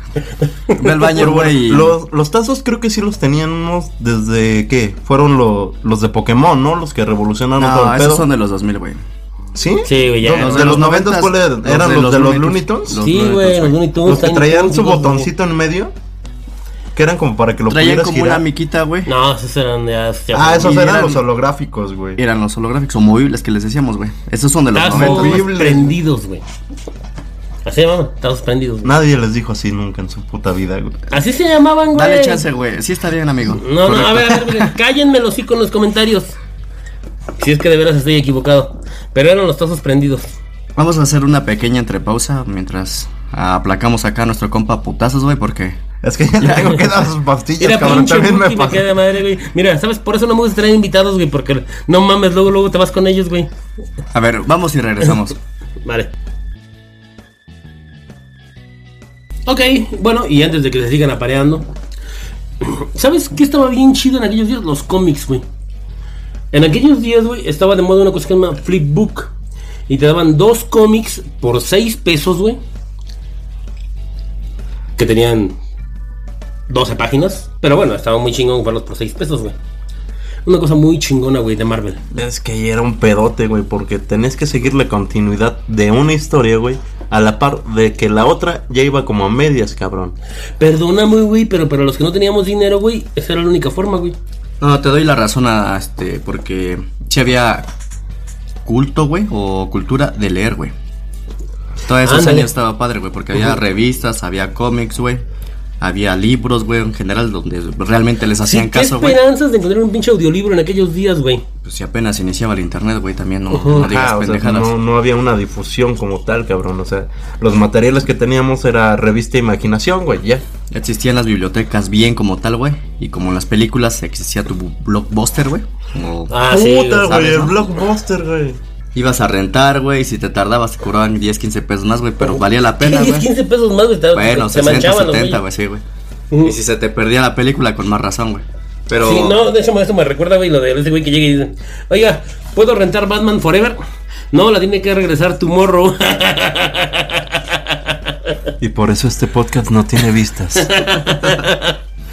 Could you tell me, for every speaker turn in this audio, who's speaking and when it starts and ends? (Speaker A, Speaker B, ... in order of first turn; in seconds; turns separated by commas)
Speaker A: 0.5-1.1, Speaker B: 0.8-2.0, Speaker C: 1.1-8.2, Speaker B: 7.6-9.0, Speaker C: 9.6-13.0, Speaker A: 9.8-10.8, Speaker B: 10.3-13.8, Speaker A: 13.0-15.3, Speaker C: 14.1-15.9, Speaker C: 16.9-18.4, Speaker B: 17.7-19.1, Speaker A: 19.1-21.1, Speaker C: 20.3-22.2, Speaker B: 20.6-21.2, Speaker B: 22.2-25.8, Speaker A: 24.7-26.4, Speaker C: 24.9-26.0, Speaker A: 27.6-28.9, Speaker C: 28.9-31.0, Speaker A: 31.1-32.4, Speaker B: 31.9-34.7, Speaker A: 33.6-36.4, Speaker A: 37.4-40.3, Speaker B: 40.8-45.8, Speaker C: 46.0-48.9, Speaker B: 46.4-46.9, Speaker A: 47.6-53.5, Speaker B: 54.1-55.4, Speaker A: 55.8-56.1, Speaker A: 59.5-61.7, Speaker A: 62.6-65.4, Speaker A: 66.5-69.3, Speaker A: 69.9-72.6, Speaker A: 75.0-75.5, Speaker A: 76.7-79.6, Speaker A: 80.5-82.0, Speaker C: 82.1-90.2, Speaker A: 90.6-94.2, Speaker B: 94.6-97.7, Speaker B: 98.7-100.7, Speaker B: 101.8-105.2, Speaker A: 102.0-102.5, Speaker B: 105.8-109.2, Speaker A: 108.4-111.4, Speaker B: 111.6-114.8, Speaker A: 113.5-113.9, Speaker C: 113.8-120.4, Speaker B: 120.7-126.3, Speaker A: 126.3-127.6, Speaker C: 126.4-128.6, Speaker B: 128.9-133.3, Speaker A: 132.3-135.4, Speaker B: 134.1-135.8, Speaker A: 136.3-136.6, Speaker B: 136.4-139.4, Speaker A: 139.0-143.8, Speaker A: 144.3-147.8, Speaker C: 148.6-150.7, Speaker A: 150.6-151.8